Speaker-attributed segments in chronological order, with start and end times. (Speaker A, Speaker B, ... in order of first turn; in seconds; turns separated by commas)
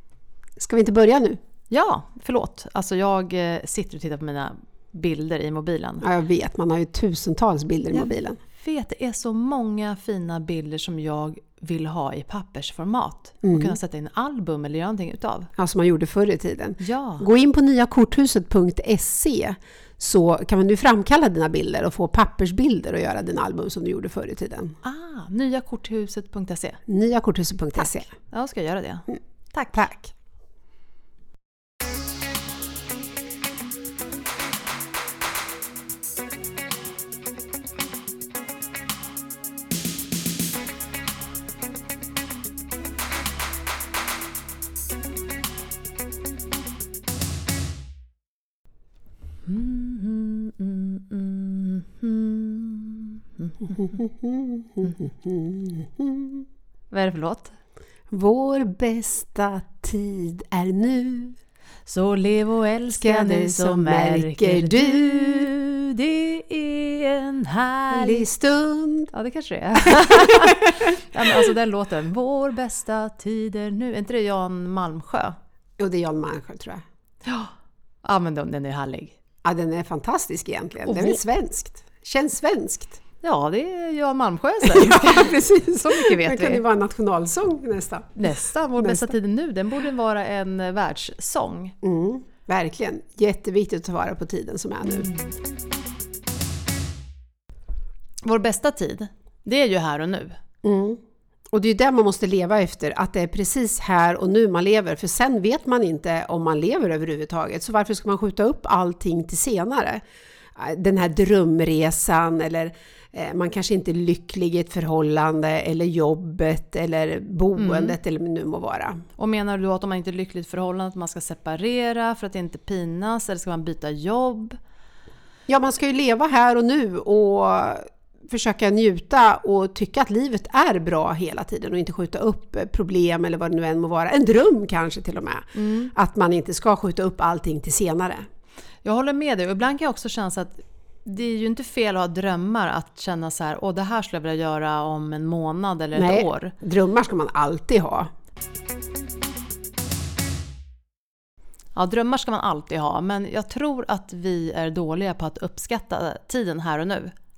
Speaker A: 0.6-1.4, Speaker B: 1.7-6.0, Speaker A: 6.0-8.4, Speaker B: 7.9-15.5, Speaker A: 13.4-13.8, Speaker A: 15.6-24.8, Speaker B: 16.8-17.2, Speaker B: 24.8-26.8, Speaker A: 26.9-28.1, Speaker B: 27.8-29.8, Speaker A: 29.7-30.1, Speaker B: 49.4-53.8, Speaker A: 53.8-56.4, Speaker B: 56.9-57.5, Speaker A: 58.1-61.4, Speaker B: 61.9-68.3, Speaker A: 63.0-65.5, Speaker A: 67.9-69.1, Speaker B: 69.1-75.3, Speaker A: 70.0-70.8, Speaker A: 75.8-76.8, Speaker B: 77.2-77.5, Speaker B: 78.0-79.1, Speaker A: 79.4-83.0, Speaker B: 80.8-81.2, Speaker B: 83.2-86.6, Speaker A: 84.6-89.1, Speaker B: 88.2-91.7, Speaker A: 91.8-95.1, Speaker B: 94.8-95.3, Speaker B: 98.2-100.4, Speaker A: 100.6-101.0, Speaker A: 101.5-110.0, Speaker A: 110.5-119.0, Speaker B: 117.6-118.0, Speaker B: 119.2-124.6, Speaker A: 125.5-138.2, Speaker B: 135.5-135.9, Speaker B: 138.8-146.5, Speaker A: 145.9-148.1, Speaker B: 151.7-157.1